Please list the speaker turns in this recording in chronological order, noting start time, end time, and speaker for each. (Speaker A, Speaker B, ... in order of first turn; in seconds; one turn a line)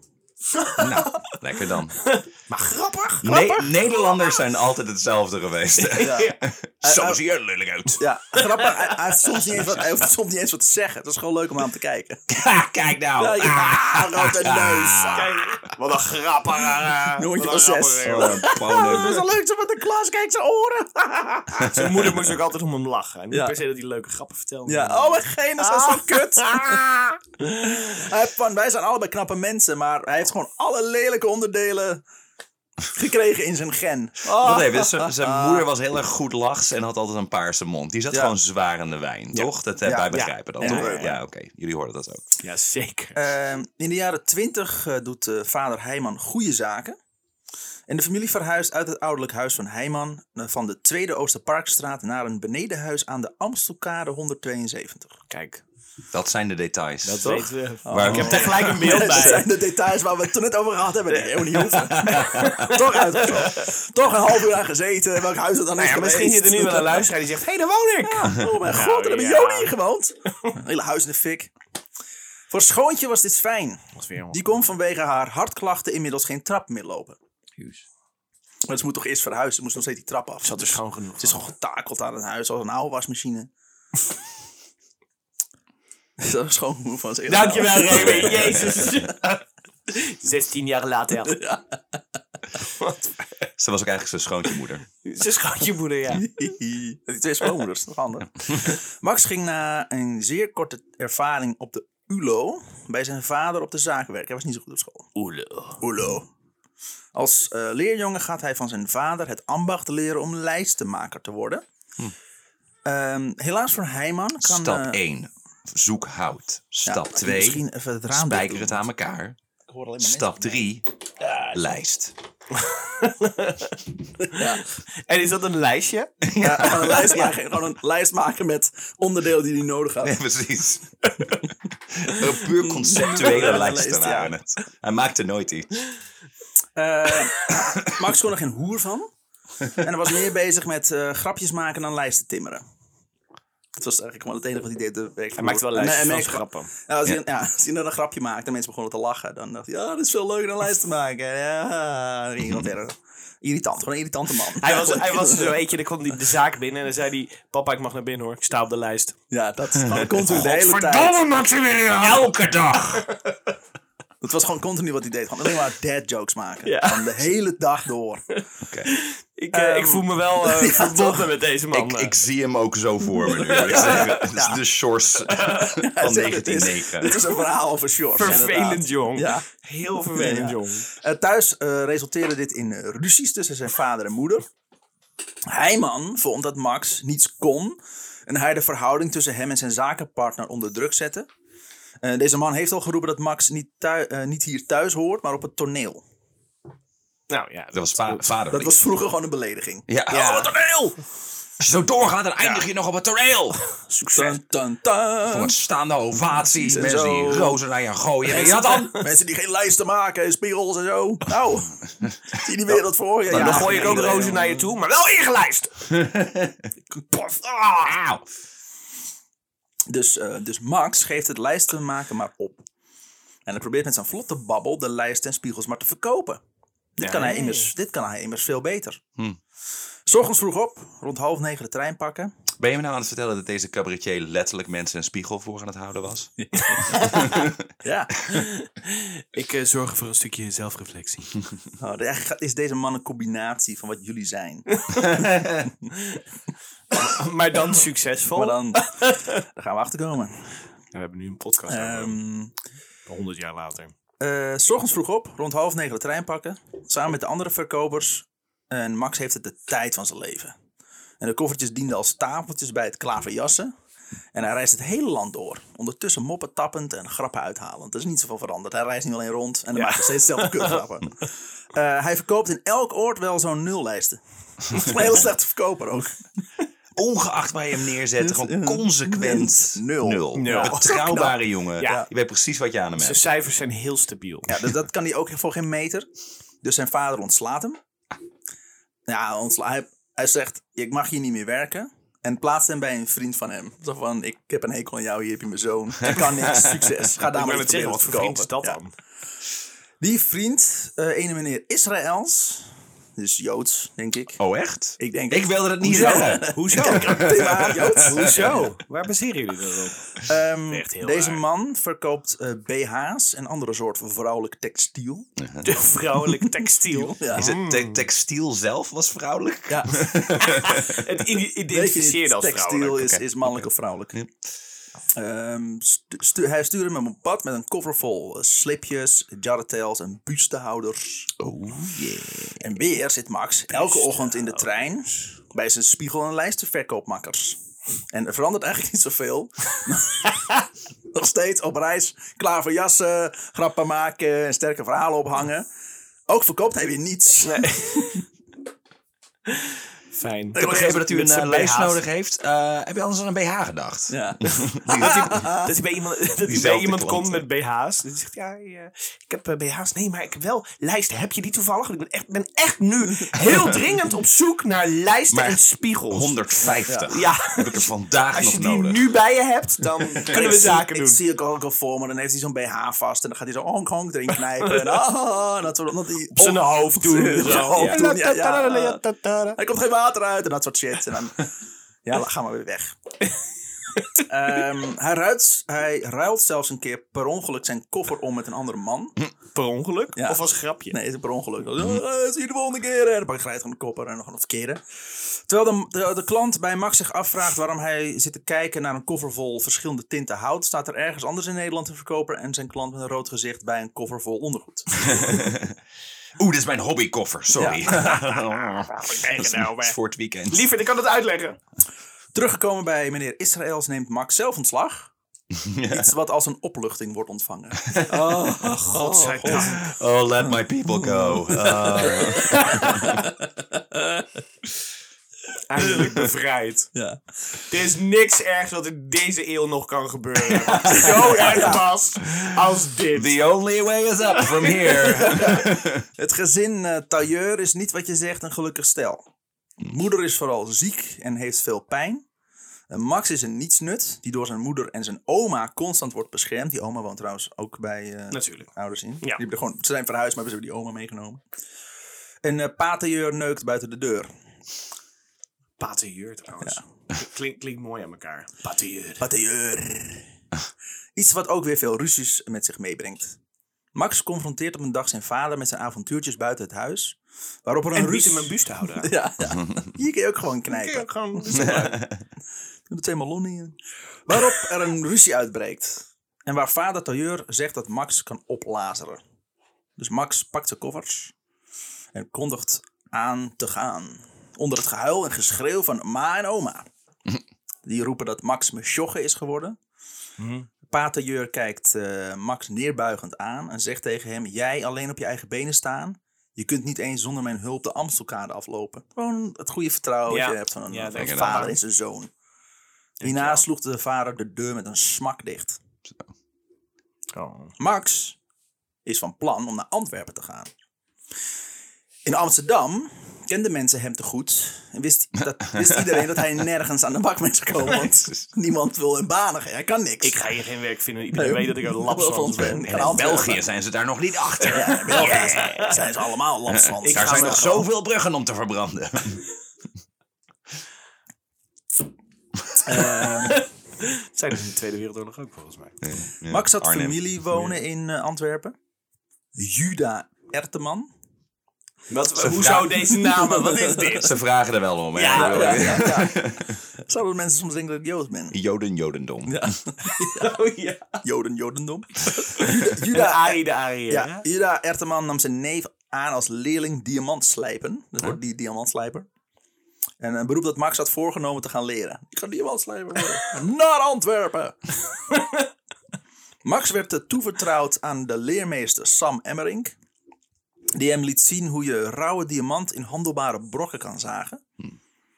Speaker A: 0.6-1.3
Speaker B: 0.8-2.1
Speaker A: 2.0-3.4
Speaker B: 3.2-8.0
Speaker C: 3.3-3.7
Speaker A: 5.8-6.4
Speaker C: 6.0-7.2
Speaker C: 8.0-12.2
Speaker A: 8.3-9.4
Speaker B: 12.3-15.7
Speaker C: 13.2-15.3
Speaker A: 15.1-19.1
Speaker C: 17.1-21.8
Speaker B: 18.1-19.2
Speaker A: 21.6-26.9
Speaker B: 21.6-22.2
Speaker C: 23.3-23.6
Speaker C: 24.7-32.0
Speaker C: 32.9-35.7
Speaker A: 34.3-35.0
Speaker B: 34.3-42.3
Speaker C: 39.3-41.2
Speaker A: 40.1-41.1
Speaker A: 42.4-43.2
Speaker C: 43.1-47.0
Speaker C: 47.9-55.2
Speaker A: 55.3-55.6
Speaker B: 56.1-59.4
Speaker A: 57.0-59.5
Speaker C: 57.2-67.1
Speaker A: 61.2-63.7
Speaker B: 61.7-62.7
Speaker A: 65.8-69.7
Speaker C: 68.0-71.5
Speaker C: 72.5-77.2
Speaker A: 74.0-74.5
Speaker C: 78.7-83.5
Speaker A: 80.4-81.5
Speaker C: 86.2-88.9
Speaker A: 87.3-91.4
Speaker C: 91.3-91.6
Speaker A: 92.8-93.1
Speaker B: 93.6-94.9
Speaker A: 95.0-96.3
Speaker C: 96.1-105.1
Speaker A: 105.2-105.8
Speaker C: 105.8-106.3
Speaker C: 107.1-111.6
Speaker C: 112.8-115.0
Speaker B: 114.4-119.4
Speaker C: 116.9-118.9
Speaker C: 119.7-121.6
Speaker B: 120.0-120.8
Speaker B: 121.5-122.1
Speaker A: 122.5-123.8
Speaker C: 124.2-124.7
Speaker A: 124.3-126.1
Speaker B: 126.2-127.3
Speaker C: 126.4-130.2
Speaker B: 130.0-131.0
Speaker B: 131.9-135.8
Speaker C: 132.1-134.3
Speaker C: 136.8-139.1
Speaker C: 139.7-142.6
Speaker C: 143.8-155.5
Speaker A: 145.4-146.7
Speaker A: 154.5-159.2
Speaker C: 159.3-161.3
Speaker B: 159.8-163.0
Speaker A: 160.9-163.3
Speaker C: 164.2-168.2
Speaker A: 166.7-167.2
Speaker B: 168.7-168.9
Speaker A: 168.9-172.2
Speaker C: 169.5-171.3
Speaker B: 171.7-177.3
Speaker A: 173.2-174.2
Speaker C: 173.5-174.6
Speaker C: 175.2-179.5
Speaker A: 175.3-175.7
Speaker A: 178.2-180.9
Speaker C: 180.1-184.5
Speaker C: 185.5-191.3
Speaker C: 192.0-196.0
Speaker A: 197.3-198.3
Speaker B: 197.7-198.8
Speaker C: 198.5-201.0
Speaker B: 199.9-200.4
Speaker A: 200.1-200.5
Speaker B: 201.6-203.6
Speaker C: 204.0-205.5
Speaker A: 204.0-204.4
Speaker B: 205.2-208.9
Speaker C: 206.5-207.6
Speaker C: 208.3-211.8
Speaker A: 208.5-209.0
Speaker B: 212.0-212.3
Speaker C: 212.3-214.7
Speaker B: 213.3-214.2
Speaker A: 213.3-215.9
Speaker B: 215.9-216.7
Speaker A: 217.1-217.9
Speaker B: 217.8-218.3
Speaker C: 219.9-222.7
Speaker C: 223.5-226.4
Speaker C: 227.0-229.0
Speaker A: 227.0-227.7
Speaker C: 230.1-232.3
Speaker B: 232.6-237.6
Speaker C: 236.4-237.3
Speaker A: 236.9-237.3
Speaker C: 237.8-238.2
Speaker A: 238.3-241.4
Speaker C: 241.8-245.3
Speaker A: 244.9-245.3
Speaker A: 245.9-246.2
Speaker A: 246.9-249.4
Speaker C: 248.3-248.9
Speaker C: 249.5-250.6
Speaker A: 250.9-252.2
Speaker C: 251.7-252.5
Speaker A: 253.1-253.9
Speaker C: 254.2-260.5
Speaker C: 261.2-263.7
Speaker C: 264.3-276.2
Speaker A: 269.8-270.8
Speaker B: 276.9-283.2
Speaker C: 278.2-282.1
Speaker A: 280.3-280.9
Speaker A: 281.8-282.1
Speaker A: 283.0-284.6
Speaker C: 284.5-286.1
Speaker C: 286.6-287.8
Speaker C: 289.1-298.8
Speaker B: 296.5-296.9
Speaker A: 297.3-298.9
Speaker C: 300.0-304.4
Speaker B: 304.4-308.4
Speaker C: 305.0-308.6
Speaker A: 305.9-311.4
Speaker C: 310.2-315.3
Speaker B: 315.4-315.7
Speaker A: 315.6-318.0
Speaker C: 316.5-317.5
Speaker B: 317.4-321.1
Speaker C: 319.7-320.0
Speaker A: 320.4-323.2
Speaker C: 321.7-324.2
Speaker B: 323.4-324.3
Speaker C: 325.2-331.3
Speaker B: 331.4-332.6
Speaker C: 332.6-337.6
Speaker A: 333.7-334.8
Speaker C: 338.1-340.4
Speaker C: 341.1-345.7
Speaker C: 346.3-348.2
Speaker A: 347.4-348.2
Speaker A: 349.5-352.0
Speaker C: 350.6-351.0
Speaker B: 350.6-355.4
Speaker C: 354.1-355.7
Speaker A: 354.5-366.4
Speaker B: 356.5-357.4
Speaker B: 363.4-363.7
Speaker B: 365.3-365.6
Speaker B: 366.1-369.1
Speaker C: 366.9-367.2
Speaker A: 367.1-371.2
Speaker C: 370.2-379.0
Speaker A: 374.6-375.0
Speaker A: 376.4-379.6
Speaker B: 377.6-378.1
Speaker C: 379.6-381.5
Speaker C: 382.1-382.9
Speaker C: 384.2-389.2
Speaker A: 389.5-391.0
Speaker C: 390.1-394.8
Speaker C: 395.5-405.3
Speaker B: 405.1-405.8
Speaker B: 406.4-410.7
Speaker C: 407.6-407.9
Speaker A: 407.9-410.0
Speaker A: 410.5-411.6
Speaker C: 412.4-415.1
Speaker B: 415.5-416.1
Speaker C: 415.9-419.8
Speaker B: 417.9-423.1
Speaker A: 418.3-419.9
Speaker C: 420.9-424.3
Speaker A: 422.4-423.1
Speaker A: 425.7-426.9
Speaker C: 426.9-427.2
Speaker A: 427.7-433.4
Speaker C: 430.7-431.9
Speaker B: 433.1-436.1
Speaker A: 434.4-435.6
Speaker C: 435.3-435.6
Speaker C: 436.2-439.2
Speaker C: 439.8-442.3
Speaker C: 442.9-451.4
Speaker A: 448.3-448.7
Speaker C: 452.4-454.3
Speaker A: 455.8-459.2
Speaker C: 459.2-460.3
Speaker C: 461.2-463.4
Speaker C: 463.9-471.9
Speaker A: 467.9-469.1
Speaker A: 470.7-472.0
Speaker B: 471.5-472.2
Speaker C: 472.9-479.2
Speaker C: 480.0-481.3
Speaker C: 482.1-486.9
Speaker C: 487.9-489.8
Speaker A: 490.4-490.7
Speaker C: 490.9-502.3
Speaker A: 500.3-501.8
Speaker B: 501.2-501.8
Speaker A: 503.2-503.6
Speaker C: 503.2-505.8
Speaker A: 507.3-507.7
Speaker C: 507.8-508.4
Speaker C: 509.1-510.7
Speaker C: 512.3-520.5
Speaker B: 515.7-516.1
Speaker B: 517.9-518.4
Speaker A: 520.2-523.4
Speaker C: 521.3-523.6
Speaker B: 522.8-525.9
Speaker A: 524.7-526.1
Speaker C: 524.7-527.9
Speaker B: 526.7-529.5
Speaker A: 527.0-527.9
Speaker C: 532.8-533.6
Speaker A: 533.0-536.0
Speaker B: 536.0-537.2
Speaker C: 536.5-538.8
Speaker A: 537.5-537.8
Speaker C: 539.5-541.1
Speaker A: 542.1-544.4
Speaker B: 542.4-543.0
Speaker C: 543.3-544.1
Speaker B: 544.1-546.8
Speaker A: 545.1-546.2
Speaker C: 545.3-546.5
Speaker C: 547.1-548.6
Speaker B: 548.5-549.8
Speaker C: 549.5-550.5
Speaker A: 550.1-551.2
Speaker C: 551.2-559.3
Speaker A: 552.6-554.5
Speaker C: 560.2-564.9
Speaker C: 566.6-570.0
Speaker C: 571.0-574.6